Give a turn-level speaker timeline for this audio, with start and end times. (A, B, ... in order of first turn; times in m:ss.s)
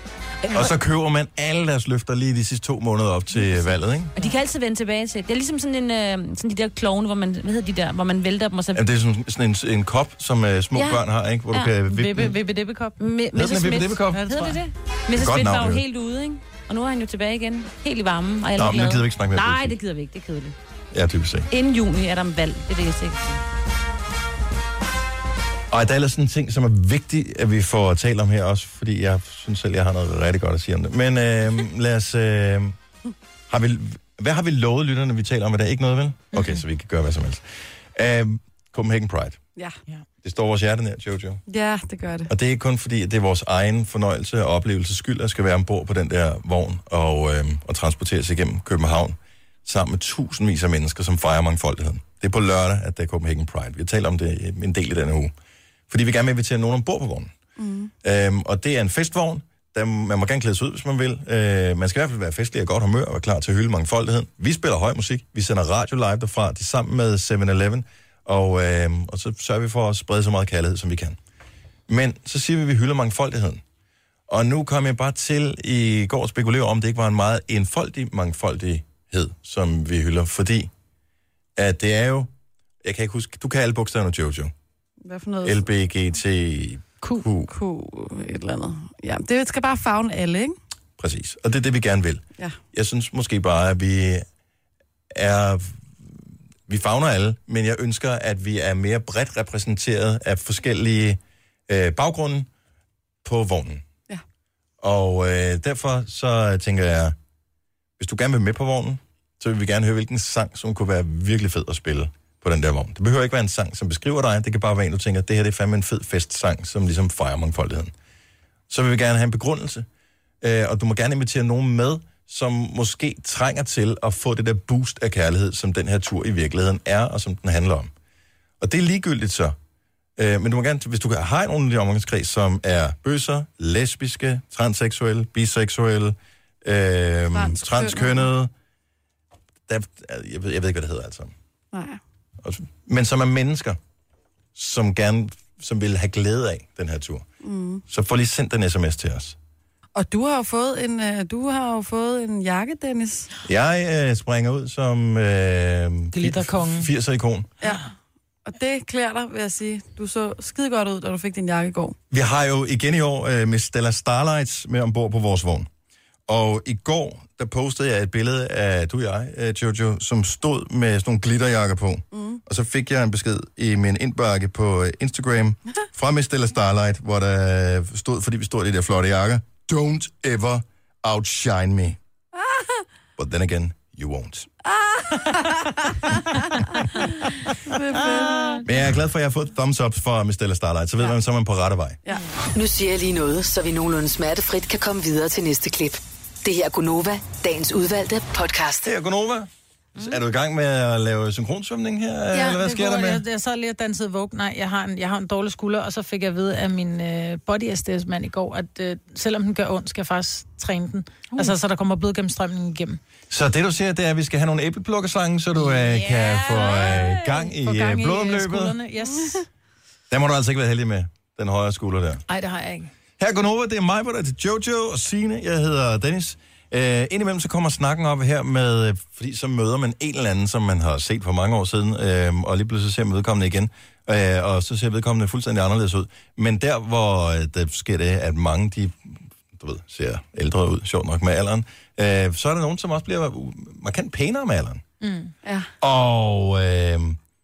0:00.5-0:04.1 A
0:04.2-0:08.8 B
0:08.7-0:12.4 A
0:10.7-0:11.7 B
0:11.9-0:13.0 C
0:13.0-0:20.5 B
0:13.3-0:14.2 A
0:14.1-0:14.6 C
0:15.1-0:15.8 A
0:18.6-0:19.8 A
0:20.9-0:21.5 A
0:21.5-0:23.4 B
0:25.7-0:32.8 A
0:33.5-0:39.4 A
0:36.3-0:36.6 C
0:40.2-0:41.4 A
0:41.5-0:42.3 D
0:42.3-0:55.3 A
0:55.9-0:57.3 A
0:57.6-0:57.9 D
0:58.0-1:11.2 A
1:11.9-1:13.6 A
1:14.3-1:20.7 A
1:21.6-1:22.3 A
1:22.8-1:24.5 A
1:25.0-1:25.7 D
1:25.4-1:27.5 A
1:27.5-1:30.6 D
1:31.0-1:34.2 A
1:35.1-1:35.8 A
1:36.7-1:42.5 A
1:43.2-1:43.8 A
1:44.8-1:47.1 A
1:48.0-1:57.9 A
1:58.7-1:59.8 A
2:00.4-2:07.9 A
2:08.6-2:09.6 A
2:10.2-2:18.5 A
2:17.3-2:18.3 D
2:19.7-2:21.3 A
2:21.7-2:22.0 D
2:22.4-2:23.8 A
2:24.5-2:27.2 A
2:27.4-2:27.8 D
2:27.9-2:29.4 A
2:29.9-2:33.3 D
2:33.4-2:37.5 A
2:36.1-2:36.9 C
2:37.6-2:37.9 D
2:38.4-2:42.0 D
2:42.1-2:45.7 A
2:46.3-3:02.0 A
2:52.1-2:52.4 D
3:02.4-3:02.8 D
3:03.2-3:04.5 A
3:04.6-3:08.6 D
3:08.6-3:12.0 A
3:12.5-3:18.9 E
3:18.8-3:23.2 A
3:22.3-3:33.0 C
3:33.3-3:38.8 A
3:35.6-3:39.4 C
3:39.0-3:39.4 D
3:40.1-3:42.2 A
3:42.3-3:42.9 C
3:43.2-4:04.8 A
4:05.0-4:05.3 C
4:05.4-4:05.7 D
4:05.8-4:07.2 A